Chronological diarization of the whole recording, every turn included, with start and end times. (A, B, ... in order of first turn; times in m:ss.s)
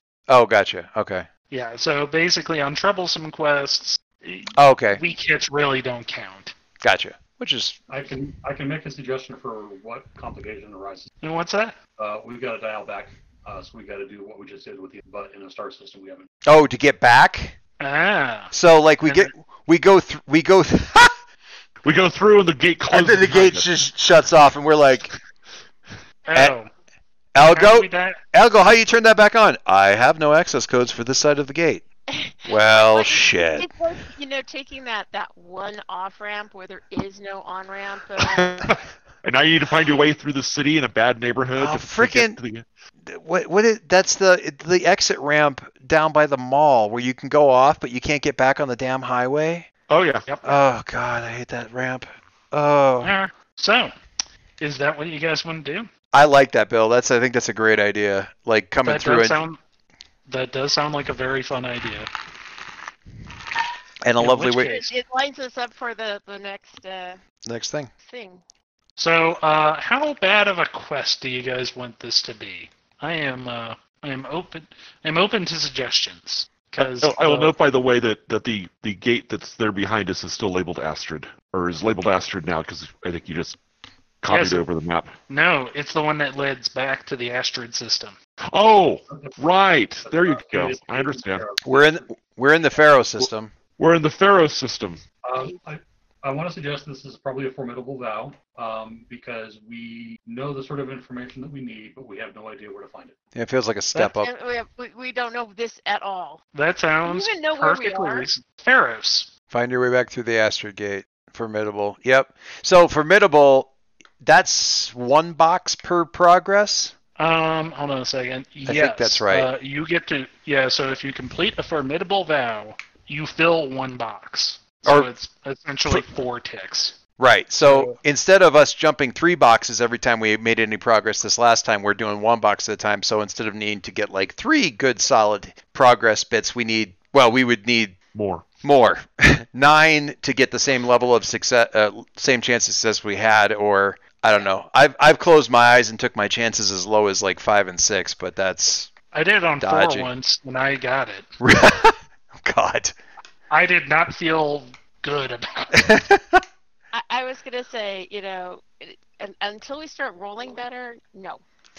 0:00.3-0:01.3 A
0:01.5-0:06.5 B
0:04.6-0:05.0 A
0:06.8-0:07.8 A
0:07.9-0:11.1 C
0:11.2-0:11.8 B
0:12.0-0:16.3 C
0:16.4-0:17.6 A
0:17.8-0:18.5 B
0:18.5-0:21.2 A
0:19.0-0:19.3 B
0:21.8-0:23.9 D
0:22.9-0:25.1 A
0:26.3-0:26.7 B
0:27.3-0:31.8 A
0:27.4-0:28.2 B
0:32.1-0:38.6 E
0:32.4-0:33.7 A
0:38.2-0:42.6 D
0:41.6-0:42.4 A
0:43.0-0:49.7 A
0:49.9-0:50.2 D
0:50.3-0:50.6 B
0:50.4-0:53.1 A
0:53.0-0:53.9 B
0:54.6-0:55.9 B
0:56.1-0:59.4 A
0:58.8-0:59.6 B
1:00.3-1:02.1 B
1:04.0-1:04.8 A
1:04.2-1:04.9 B
1:04.6-1:07.2 E
1:07.4-1:07.9 A
1:08.0-1:08.4 E
1:09.0-1:17.5 B
1:16.8-1:23.6 D
1:24.2-1:25.1 D
1:24.3-1:24.6 B
1:25.3-1:28.2 B
1:28.5-1:31.4 D
1:29.1-1:29.4 C
1:30.0-1:32.2 C
1:31.6-1:33.5 A
1:33.2-1:35.0 D
1:35.2-1:43.1 C
1:43.3-1:44.3 A
1:44.0-1:46.4 E
1:46.5-1:49.3 B
1:47.0-1:48.3 E
1:49.5-1:56.9 A
1:57.2-2:07.0 B
1:58.6-1:59.5 A
2:05.9-2:06.2 A
2:07.2-2:18.0 A
2:07.6-2:08.0 B
2:18.1-2:18.4 D
2:18.6-2:28.9 A
2:29.1-2:31.3 B
2:29.6-2:30.1 A
2:31.4-2:33.0 A
2:33.5-2:35.9 B
2:35.7-2:36.4 A
2:36.9-2:41.4 E